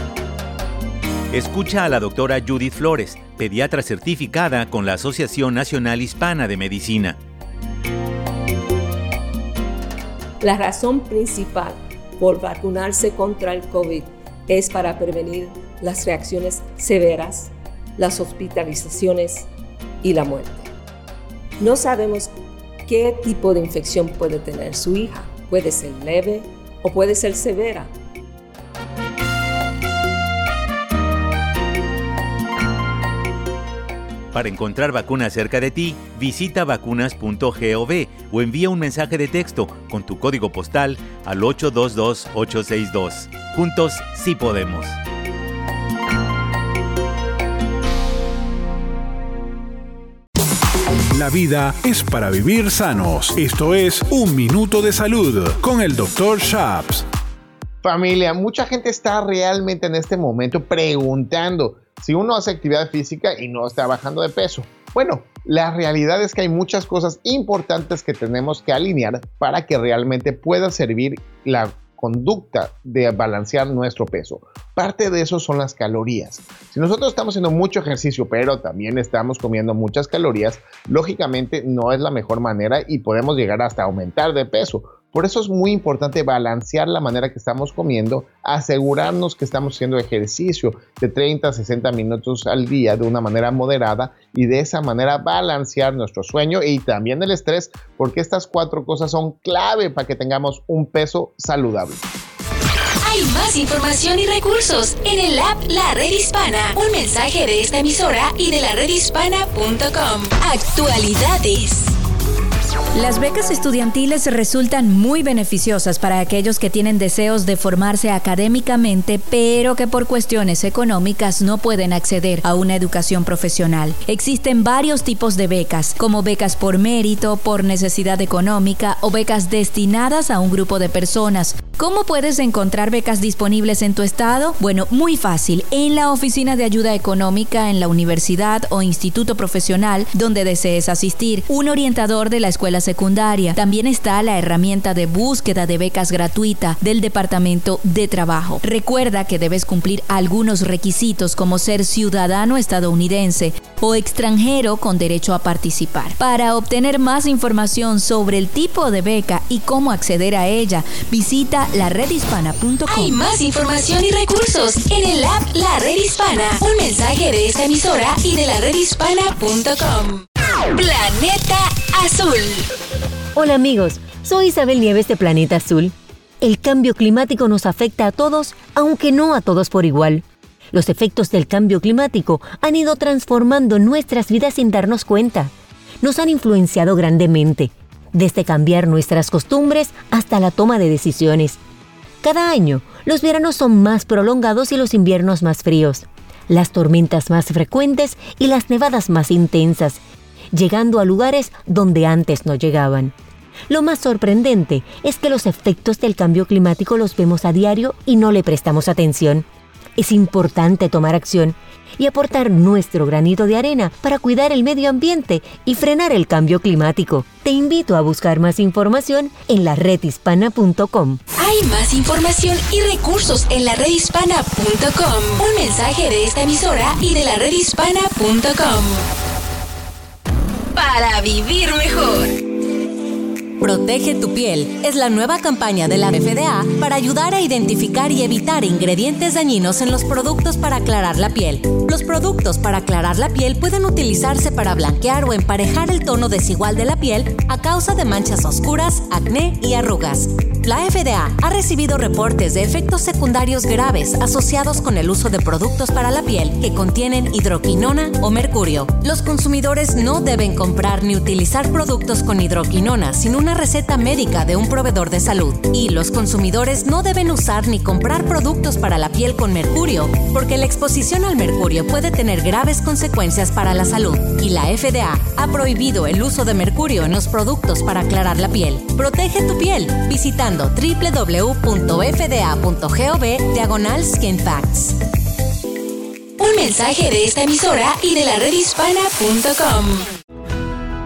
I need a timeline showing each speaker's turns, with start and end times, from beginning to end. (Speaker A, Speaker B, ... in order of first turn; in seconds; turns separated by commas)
Speaker A: 1.3-7.2, Speaker B: 10.4-19.5, Speaker B: 20.0-20.7, Speaker B: 21.6-22.3, Speaker B: 22.9-27.9, Speaker A: 34.3-45.0, Speaker C: 51.1-57.1, Speaker D: 57.8-102.0, Speaker E: 103.0-111.9, Speaker F: 112.9-163.2, Speaker E: 162.9-172.7, Speaker G: 173.3-191.6, Speaker G: 192.2-203.2, Speaker G: 203.7-221.2, Speaker E: 221.4-229.1, Speaker E: 230.7-232.3, Speaker H: 233.6-285.0, Speaker E: 286.4-290.1